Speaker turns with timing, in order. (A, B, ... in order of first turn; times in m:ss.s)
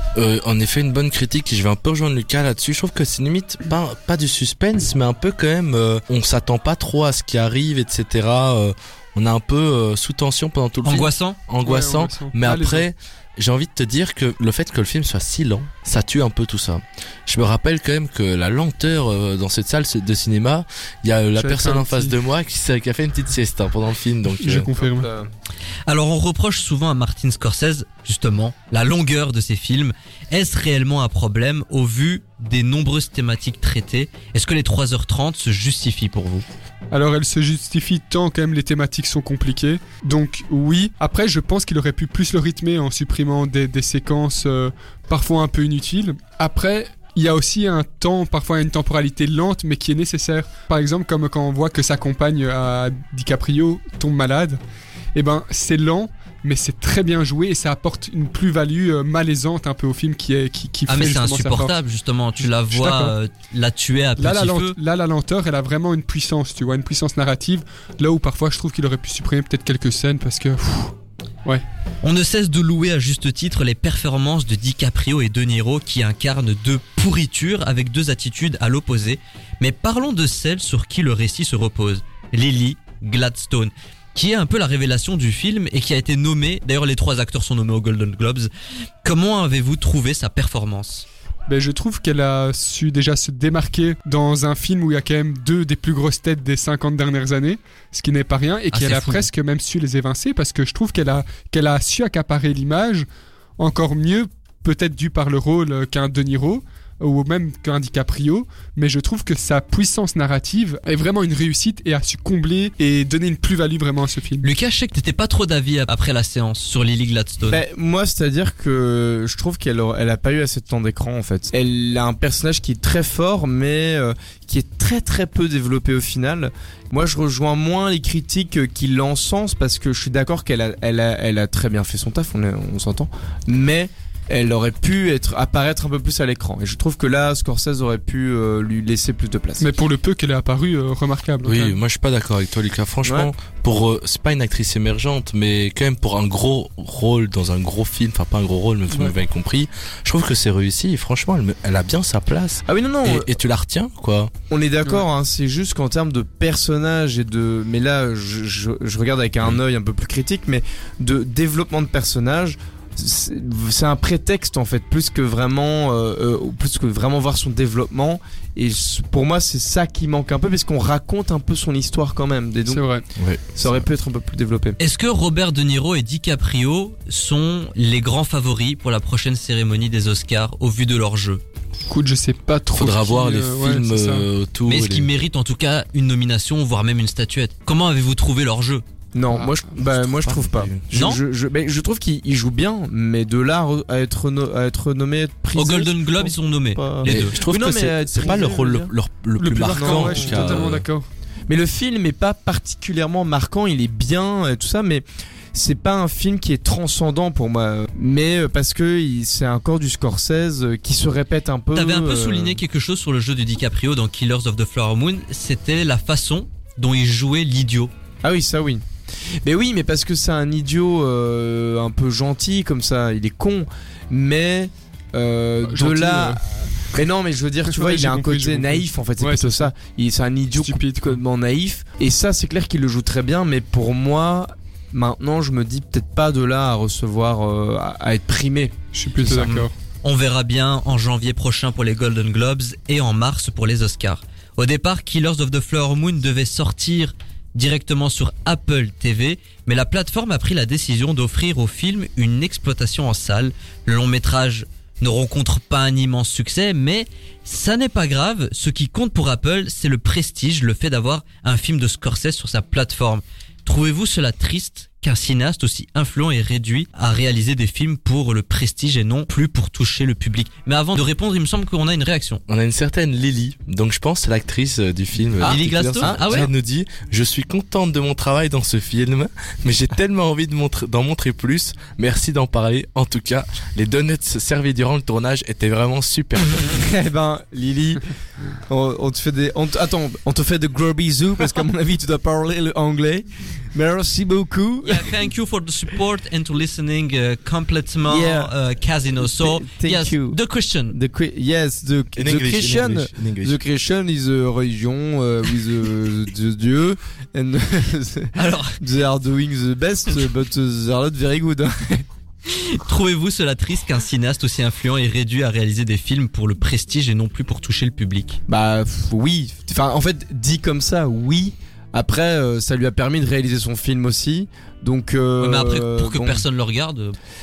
0:00.2-0:24.7 A
0:10.8-0:11.4 B
0:11.6-0:12.9 C
0:21.4-0:22.2 C
0:24.4-0:25.1 C
0:24.8-0:25.3 D
0:25.9-0:36.4 B
0:36.9-0:54.6 C
0:55.2-1:01.8 C
1:00.9-1:04.8 B
1:02.4-1:03.2 C
1:04.2-1:10.9 C
1:12.0-1:28.5 B
1:29.0-1:31.1 B
1:31.5-1:43.1 C
1:38.7-1:39.3 B
1:43.6-1:54.5 C
1:54.4-1:57.6 B
1:57.5-2:19.7 D
2:19.6-2:21.8 C
2:21.4-2:34.3 A
2:23.0-2:23.3 D
2:28.9-2:29.2 C
2:32.7-2:33.3 D
2:34.5-2:52.8 D
2:52.7-2:53.0 C
2:53.2-2:53.8 A
2:53.6-2:54.8 D
2:54.8-3:01.4 B
3:01.9-3:04.3 C
3:02.7-3:05.1 A
3:04.7-3:08.8 B
3:09.1-3:18.9 D
3:09.3-3:09.7 C
3:09.8-3:10.9 A
3:10.9-3:11.2 B
3:15.5-3:17.3 B
3:17.0-3:20.9 A
3:19.4-3:21.1 C
3:19.6-3:20.7 D
3:21.5-3:32.6 D
3:31.7-3:37.9 B
3:38.2-3:38.8 D
3:39.4-3:58.8 D
3:45.6-3:46.7 C
3:47.7-3:49.7 C
3:50.6-3:51.2 C
3:58.9-3:59.7 C
3:59.3-4:32.4 B
4:32.5-4:46.8 A
4:35.4-4:36.4 D
4:35.4-4:36.5 B
4:46.6-4:48.0 D
4:48.7-4:55.2 D
4:54.8-5:01.0 B
4:58.1-4:58.5 D
4:59.1-5:00.4 D
5:00.9-5:12.0 D
5:02.2-5:03.6 A
5:08.4-5:08.8 B
5:12.5-5:18.4 B
5:18.5-5:26.4 D
5:25.4-5:27.2 B